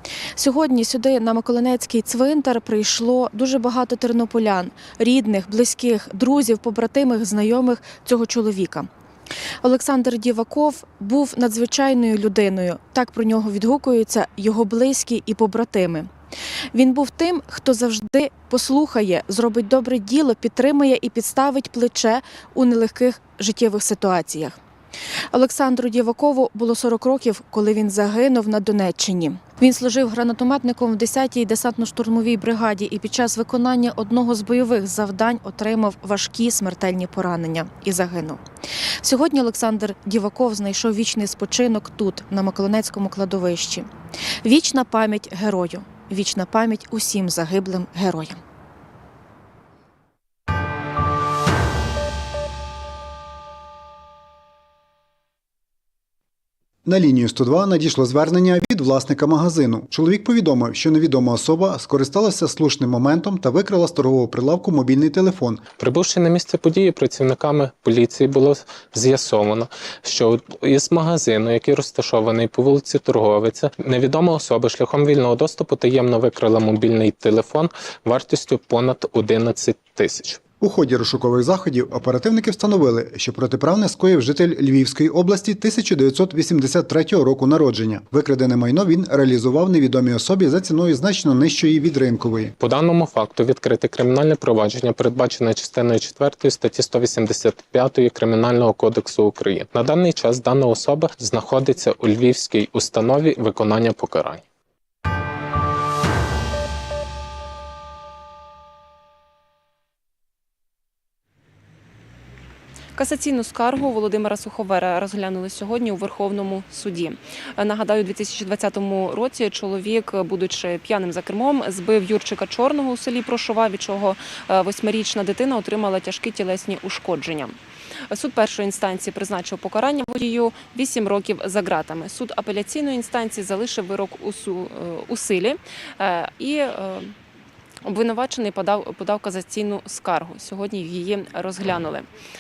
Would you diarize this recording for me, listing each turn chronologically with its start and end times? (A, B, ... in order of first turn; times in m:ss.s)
0:00.4-0:08.9 A
0:09.6-0:16.1 A
0:16.7-0:24.6 A
0:25.3-0:38.4 A
0:39.0-0:43.9 A
0:44.4-0:48.4 A
0:56.8-1:05.6 B
1:05.8-1:20.4 C
1:20.6-1:32.5 B
1:32.6-1:44.4 C
1:53.0-2:07.6 D
2:08.1-2:17.1 D
2:17.8-2:22.1 D